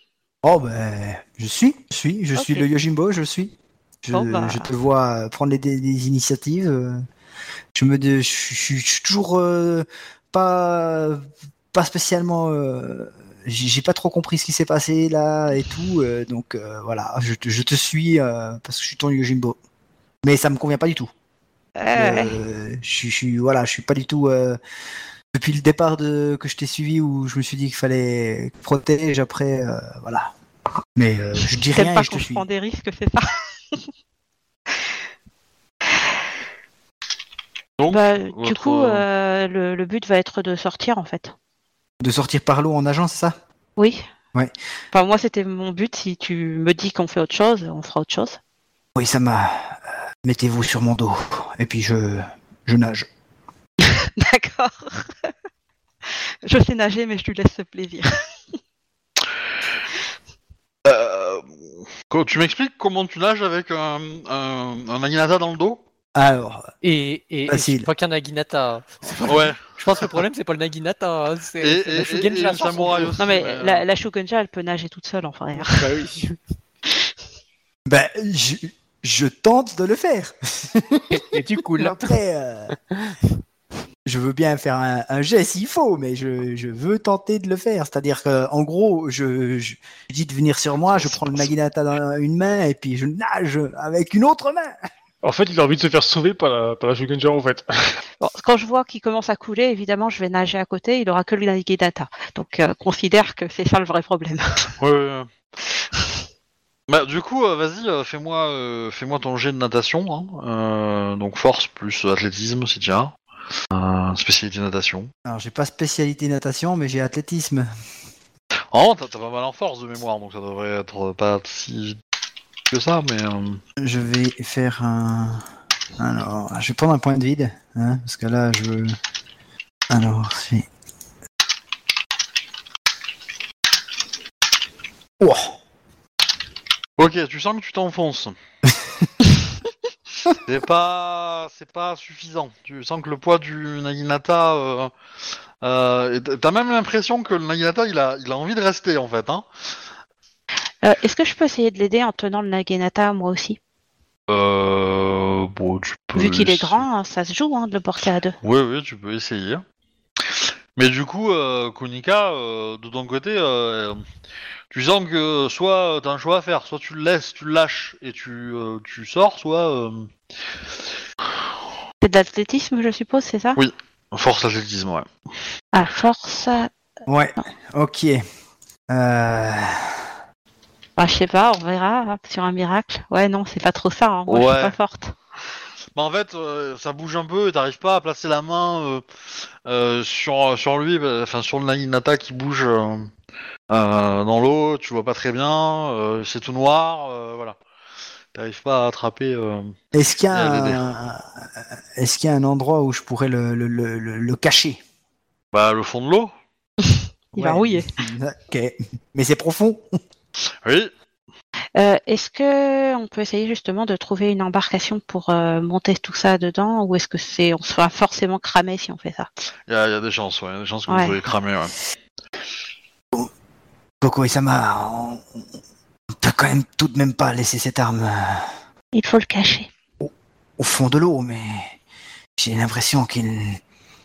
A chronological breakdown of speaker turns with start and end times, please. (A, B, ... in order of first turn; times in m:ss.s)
0:00.4-0:07.0 A
0:02.4-0:02.7 B
0:04.1-0:04.7 B
0:07.7-0:19.6 A
0:20.2-0:21.1 A
0:21.8-0:22.3 B
0:21.9-0:24.6 A
0:25.3-0:30.3 A
0:31.0-0:32.4 A
0:31.7-0:33.8 B
0:37.8-0:39.0 C
0:37.9-0:41.3 B
0:42.0-0:43.3 A
0:43.8-0:44.0 B
0:44.9-0:48.4 B
0:48.9-0:53.1 A
0:53.8-0:55.3 B
0:56.1-0:58.1 B
1:00.8-1:05.8 C
1:06.1-1:06.7 A
1:06.8-1:13.6 D
1:07.5-1:07.9 A
1:09.3-1:09.6 C
1:11.6-1:13.8 C
1:13.2-1:15.8 B
1:15.6-1:16.4 D
1:17.9-1:21.2 A
1:21.1-1:22.2 D
1:21.8-1:22.7 A
1:24.0-1:34.8 A
1:35.2-1:37.6 E
1:38.2-1:44.7 B
1:44.8-1:45.3 C
1:46.9-1:53.1 C
1:53.7-1:55.1 C
1:55.2-1:57.7 A
1:58.7-2:02.0 C
2:02.7-2:03.6 C
2:03.8-2:05.4 A
2:06.0-2:09.0 A
2:09.9-2:10.7 A
2:15.2-2:15.5 A
2:17.0-2:18.3 C
2:20.4-2:24.9 C
2:25.6-2:29.4 C
2:30.8-2:33.6 B
2:34.3-2:36.8 C
2:36.1-2:38.4 B
2:38.4-2:39.6 C
2:40.2-2:44.0 C
2:44.7-2:50.1 C
2:52.0-2:53.6 B
2:53.6-2:55.1 C
2:55.7-2:56.7 B
2:57.1-2:58.2 A
2:58.9-3:00.0 A
3:01.0-3:05.1 B
3:04.3-3:04.8 C
3:06.0-3:09.0 C
3:09.6-3:13.1 C
3:13.7-3:17.6 C
3:18.3-3:19.7 C
3:19.9-3:24.8 A
3:20.3-3:20.8 C
3:25.5-3:26.3 C
3:26.8-3:27.9 B
3:27.3-3:30.0 A
3:30.4-3:30.9 C
3:31.8-3:39.3 B
3:39.7-3:41.7 C
3:40.9-3:41.2 B
3:44.0-3:45.5 A
3:46.2-3:48.5 A
3:48.9-3:49.7 B
3:50.0-3:51.8 A
3:52.4-3:53.6 A